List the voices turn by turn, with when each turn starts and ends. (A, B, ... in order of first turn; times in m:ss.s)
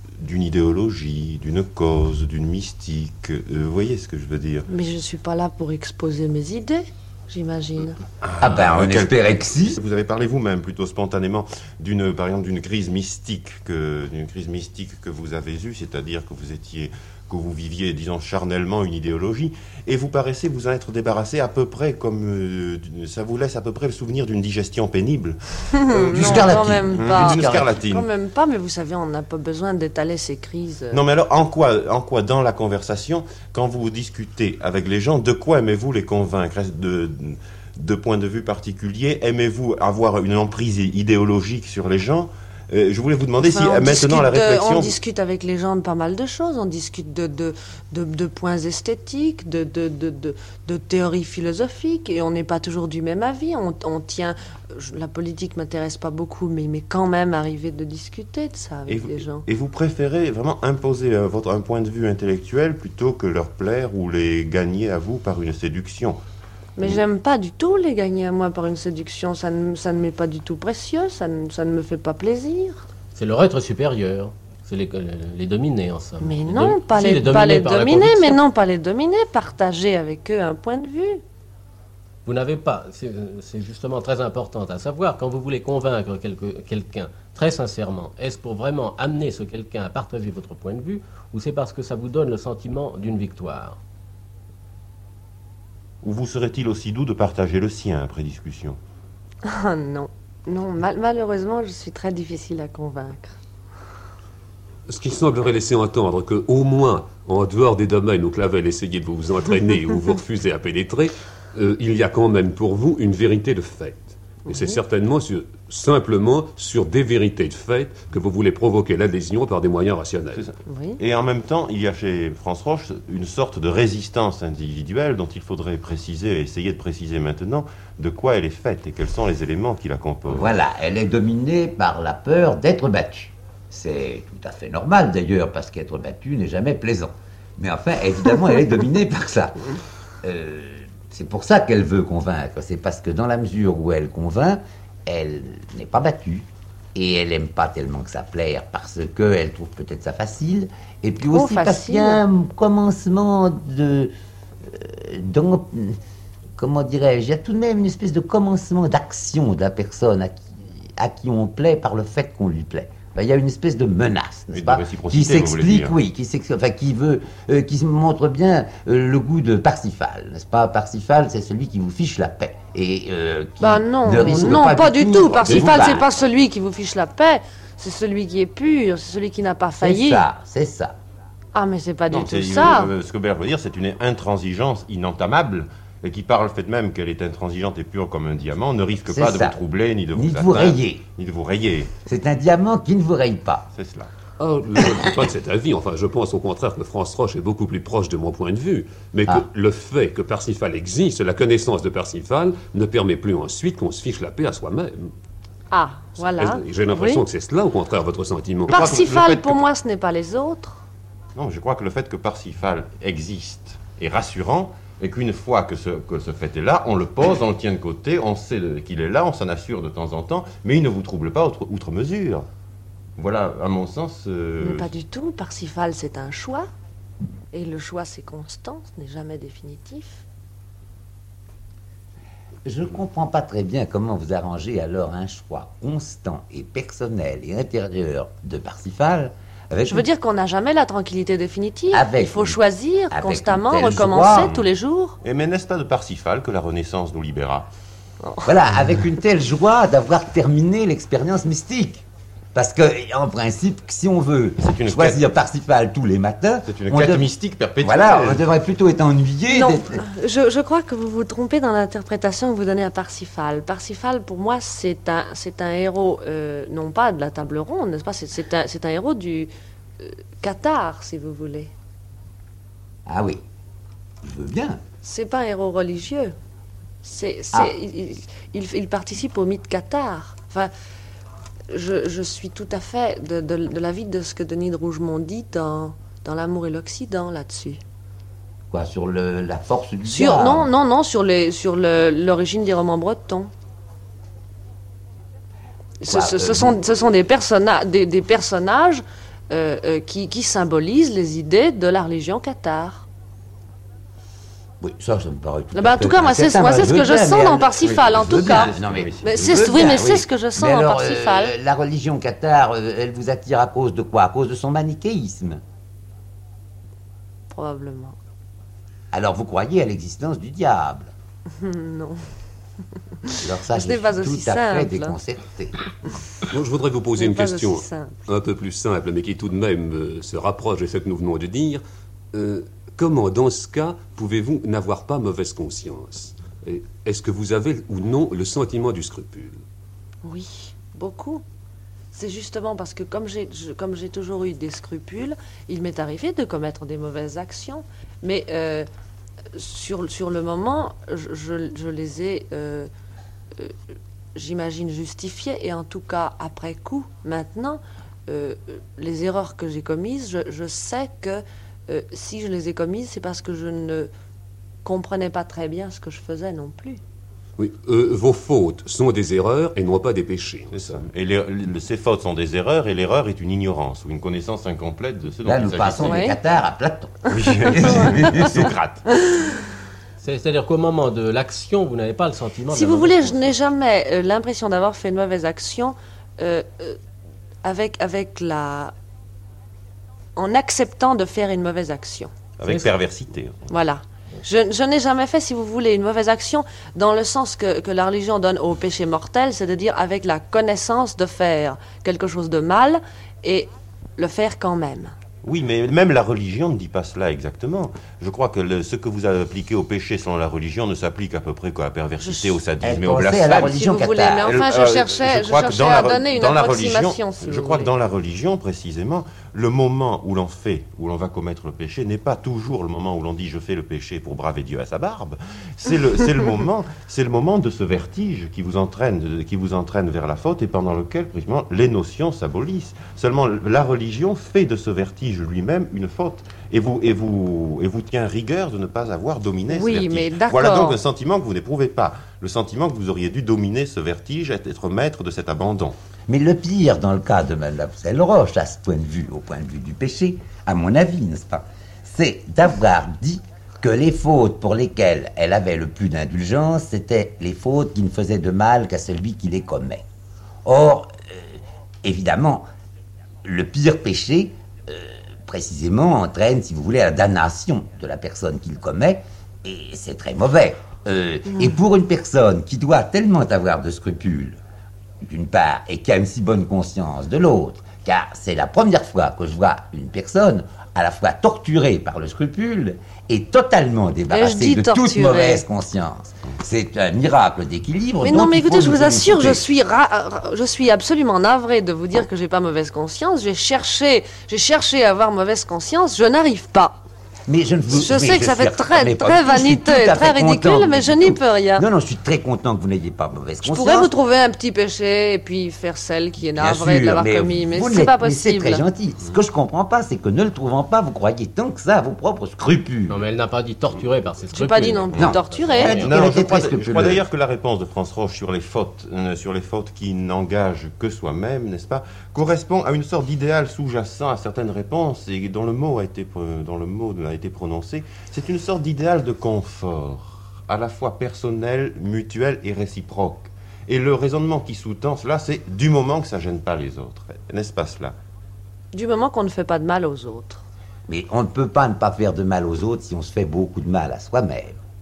0:00.2-0:04.7 A
0:04.7-0:08.0 B
0:08.2-0:28.1 A
0:08.4-0:09.8 C
0:25.8-0:31.0 B
0:26.0-0:27.7 C
0:30.9-0:45.0 A
0:43.4-0:59.4 B
0:58.9-1:06.2 A
1:06.8-1:12.8 B
1:13.1-1:18.4 D
1:16.2-1:21.2 B
1:22.2-1:33.8 D
1:36.0-1:38.8 A
1:39.4-1:43.4 B
1:44.9-2:00.5 E
1:54.5-1:54.8 B
2:00.4-2:10.5 A
2:00.6-2:01.0 B
2:10.3-2:19.6 C
2:20.2-2:34.1 C
2:31.3-2:32.2 B
2:34.6-2:36.0 C
2:36.6-2:56.0 C
2:44.5-2:45.9 A
2:53.6-3:00.2 B
2:55.5-2:56.0 A
2:59.8-3:01.0 C
3:01.5-3:02.9 B
3:02.1-3:11.9 A
3:09.1-3:09.6 C
3:10.1-3:11.0 C
3:12.0-3:13.7 C
3:13.7-3:14.1 A
3:14.4-3:25.1 E
3:25.7-3:27.2 B
3:26.2-3:28.8 E
3:28.7-3:30.8 B
3:28.7-3:29.6 A
3:31.4-3:42.5 A
3:43.2-3:44.9 A
3:44.6-3:46.7 B
3:47.5-3:50.2 B
3:52.6-4:00.1 C
3:59.9-4:05.2 B
4:01.9-4:02.6 C
4:03.1-4:04.5 C
4:04.2-4:04.7 A
4:05.2-4:07.7 A
4:08.4-4:17.3 C
4:14.6-4:15.2 A
4:16.7-4:18.4 A
4:17.8-4:20.0 C
4:19.5-4:31.7 B
4:33.0-4:33.4 C
4:34.2-4:34.8 C
4:35.0-4:36.3 B
4:37.0-4:40.7 B
4:41.7-4:47.8 B
4:48.7-4:50.7 C
4:50.0-4:53.5 B
4:56.0-5:03.0 B
4:56.1-4:56.7 C
5:04.8-5:15.6 C
5:05.7-5:11.5 B
5:07.8-5:09.9 A
5:17.5-5:18.2 B
5:19.1-5:21.1 C
5:21.6-5:22.2 B
5:23.2-5:25.1 B
5:23.4-5:25.8 C
5:26.5-5:31.8 E
5:27.2-5:28.2 B
5:32.3-5:39.6 E
5:40.2-5:41.4 B
5:42.1-5:48.9 B
5:49.5-5:52.9 B
5:54.3-6:04.1 B
6:04.8-6:07.0 B
6:07.6-6:11.0 E
6:10.7-6:16.2 A
6:15.4-6:18.7 C
6:16.0-6:16.4 B
6:17.3-6:19.0 A
6:17.7-6:18.5 B
6:19.1-6:19.6 B
6:20.2-6:23.5 D
6:22.7-6:27.0 B
6:27.6-6:28.9 B
6:30.4-6:32.3 B
6:32.6-6:33.7 A
6:32.6-6:32.9 D
6:33.7-6:45.1 B
6:45.4-6:53.8 A
6:52.2-6:52.6 B
6:52.8-6:54.6 C
6:53.6-6:57.9 B
6:54.4-7:26.0 A
7:19.7-7:21.0 B
7:26.3-7:40.0 C
7:40.6-7:42.7 C
7:43.4-7:54.6 C
7:55.2-8:09.6 C
8:04.3-8:05.6 B
8:08.2-8:17.0 B
8:17.5-8:24.1 C
8:17.9-8:21.8 B
8:23.6-8:28.8 B
8:26.4-8:33.2 C
8:33.1-8:36.2 D
8:34.5-8:36.0 B
8:35.2-8:37.2 C
8:35.9-8:58.1 A
8:58.9-9:00.6 B
9:01.1-9:04.8 C